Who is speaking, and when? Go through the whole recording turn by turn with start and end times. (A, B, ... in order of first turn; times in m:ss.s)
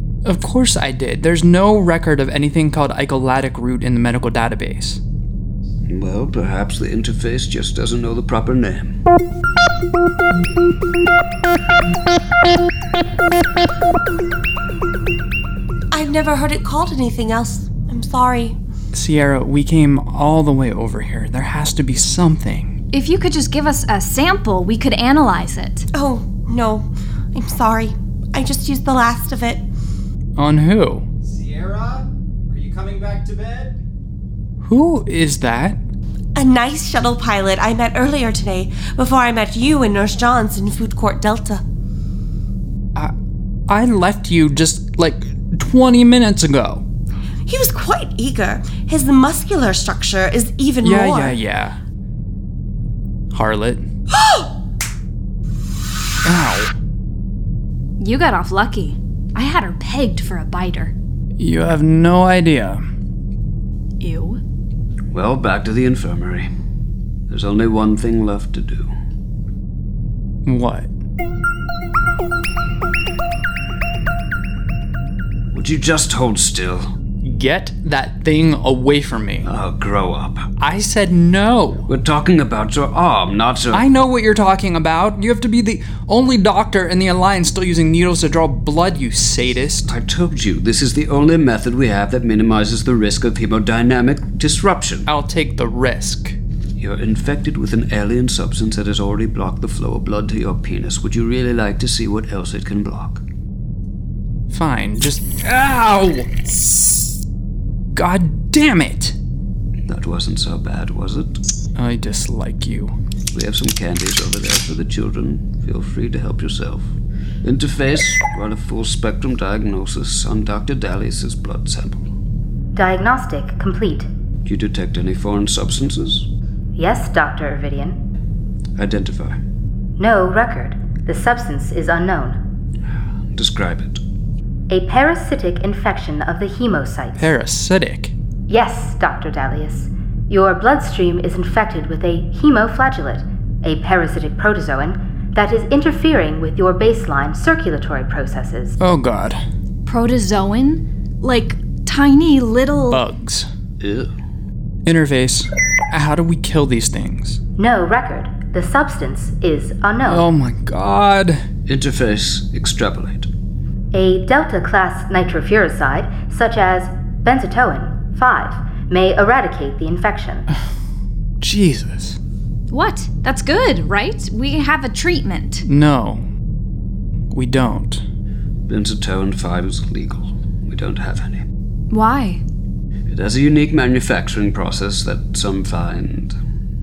0:00.2-0:05.0 A
0:05.9-0:09.0 B
0:15.9-0:18.6 C
0:18.9-0:22.7 A
0:22.9-0:25.9 D
0:25.9-0:29.6 C
0:30.4-0:31.1 A
0:31.2-0:33.7 E
0:34.6-0:35.8 A
0:36.3-0:41.6 C
0:43.7-0:46.8 A
0:47.5-0:51.4 C
0:50.8-0:51.8 A
0:53.3-0:53.9 A
0:54.2-0:54.5 C
0:56.2-0:56.7 A
0:58.0-1:00.9 D
1:01.4-1:02.8 A
1:04.0-1:04.4 D
1:05.1-1:06.5 B
1:07.3-1:08.9 B
1:10.4-1:10.9 A
1:15.5-1:16.9 B
1:17.2-1:19.5 A
1:19.4-1:20.5 B
1:20.6-1:21.9 A
1:21.9-1:23.8 B
1:23.7-1:29.9 A
1:29.9-1:35.1 B
1:35.1-1:36.4 A
1:36.8-1:43.2 B
1:44.5-1:46.4 A
1:47.9-1:49.2 A
1:49.9-1:51.4 B
1:51.8-1:52.9 A
1:53.3-1:56.9 B
1:57.4-2:02.1 B
2:02.7-2:04.1 F
2:04.4-2:06.3 B
2:06.8-2:08.0 F
2:08.8-2:09.4 B
2:10.0-2:12.4 F
2:13.3-2:14.0 B
2:14.7-2:17.3 F
2:17.2-2:18.1 A
2:18.5-2:28.8 F
2:28.8-2:29.4 A
2:29.8-2:33.0 D
2:32.9-2:33.5 A
2:33.8-2:34.1 B
2:34.8-2:37.4 A
2:37.6-2:40.2 F
2:40.0-2:41.4 A
2:41.7-2:43.3 B
2:43.9-2:50.5 F
2:51.4-2:52.2 A
2:52.7-2:55.6 D
2:55.6-2:56.2 A
2:57.3-2:58.0 A
2:58.7-3:01.4 B
3:01.9-3:02.4 D
3:03.1-3:06.4 B